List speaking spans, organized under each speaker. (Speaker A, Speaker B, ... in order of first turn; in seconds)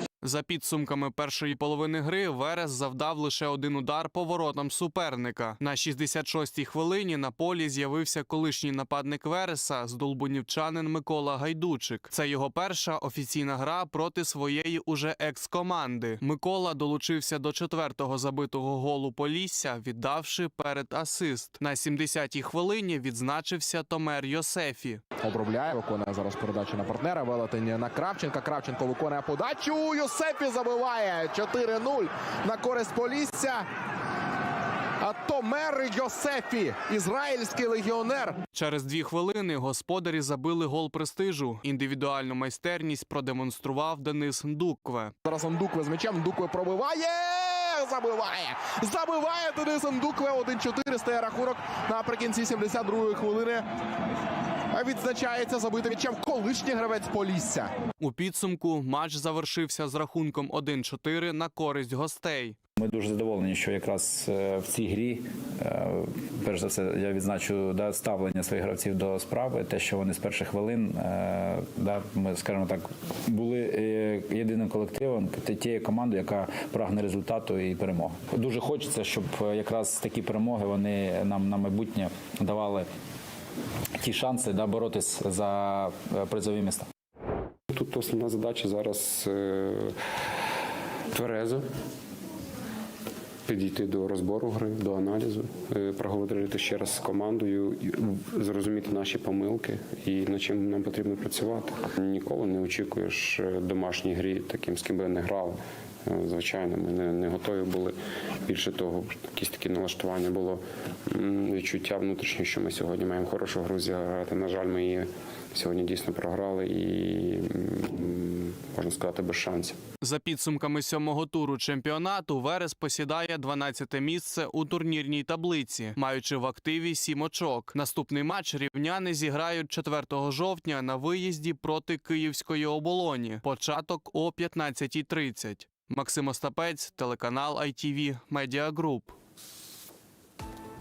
Speaker A: 0.2-25.0, 38.5-45.1, 58.0-62.6, 120.0-139.2
Speaker B: 25.2-33.6, 35.0-38.4, 45.2-53.7, 54.7-57.7
Speaker C: 62.8-82.9, 84.0-86.9
Speaker D: 87.7-90.0, 91.1-91.7, 93.5-119.8